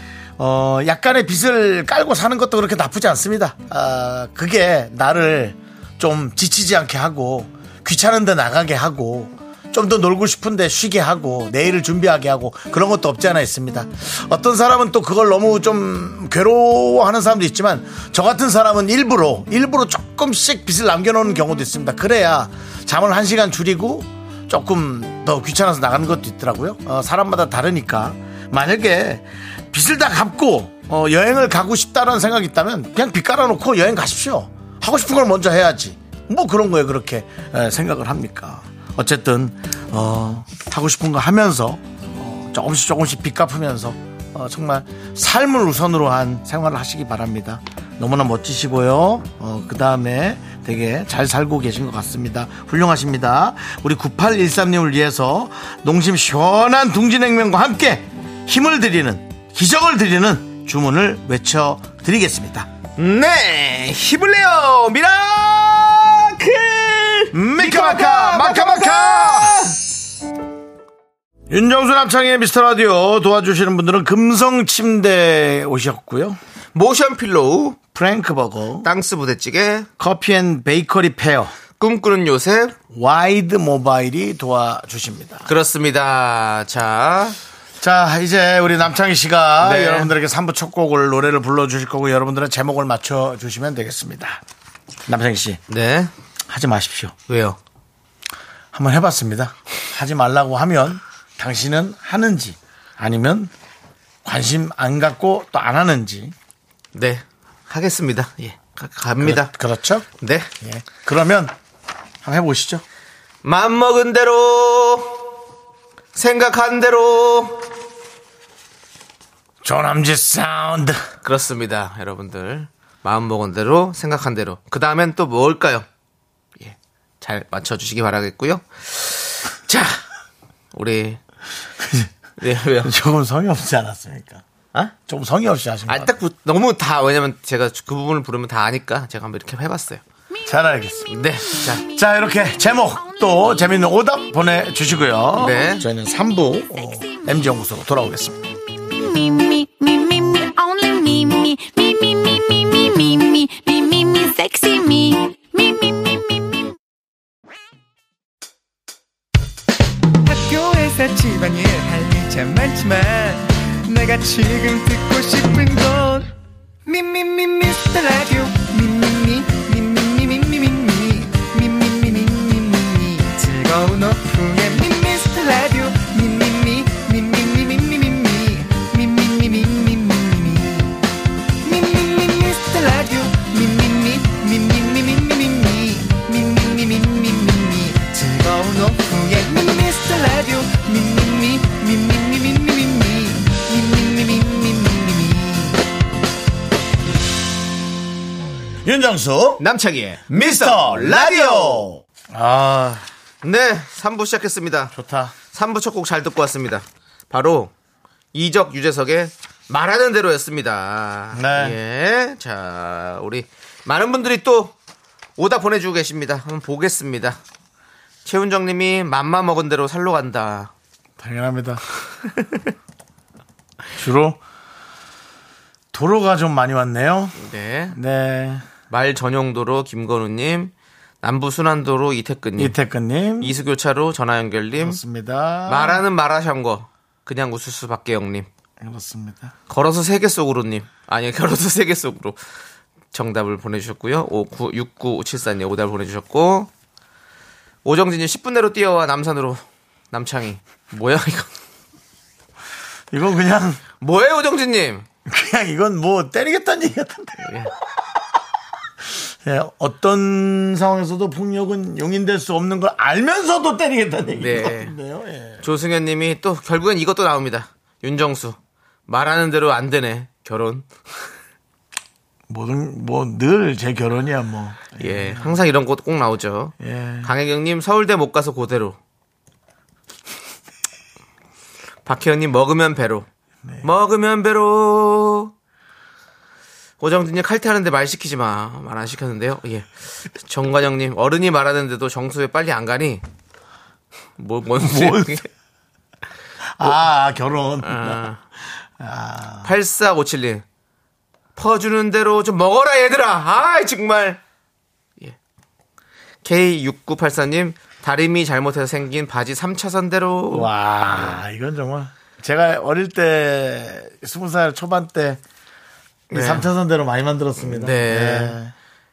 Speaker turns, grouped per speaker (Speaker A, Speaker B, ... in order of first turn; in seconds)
Speaker A: 0.4-62.7, 67.3-69.6, 71.5-76.4, 77.9-78.9, 80.0-81.5, 82.9-85.5, 87.8-94.4, 95.1-95.6, 96.5-97.1, 98.7-103.5, 104.2-106.3, 109.2-110.0, 110.6-111.5, 112.2-112.8, 119.6-121.0, 131.8-132.1, 132.8-134.4, 135.1-136.1, 140.4-141.1, 141.7-148.4, 198.8-199.6, 200.3-203.1, 204.9-205.3, 211.3-211.8, 221.2-221.8, 224.0-224.4, 225.9-227.3, 227.9-228.6, 232.6-233.5, 234.8-236.0, 238.8-239.5, 253.1-253.8, 255.2-257.6, 259.1-265.6, 272.5-275.6, 276.8-277.3, 294.8-295.4, 296.8-298.3, 299.0-299.7, 310.5-315.4, 316.3-318.7
Speaker B: 63.0-69.8, 76.7-77.8, 78.8-79.9, 81.8-82.8, 85.5-87.4, 89.6-90.1, 95.7-96.1, 97.3-97.6, 106.9-109.5, 110.2-110.5, 113.4-115.2, 116.1-117.7, 121.2-125.8, 126.6-130.0, 130.7-131.2, 132.4-132.9, 135.9-140.0, 141.1-141.8, 145.3-145.8, 199.6-201.9, 203.4-204.9, 205.5-207.7, 208.3-214.7, 215.4-217.4, 218.2-220.7, 227.3-227.9, 228.9-232.8, 233.4-235.0, 235.7-238.5, 239.7-242.4, 243.1-246.7, 247.8-251.5, 254.0-255.1, 257.4-257.7, 264.4-264.9, 265.6-270.9, 275.0-279.0, 282.0-283.3, 283.8-285.5, 287.0-293.2, 294.4-295.5, 297.8-298.4, 299.6-300.6, 301.6-304.4, 306.4-311.4, 316.3-316.7, 317.6-318.6
Speaker C: 142.8-144.0, 146.7-147.5, 148.8-156.6
Speaker D: 160.2-166.3, 166.8-180.9, 181.6-195.8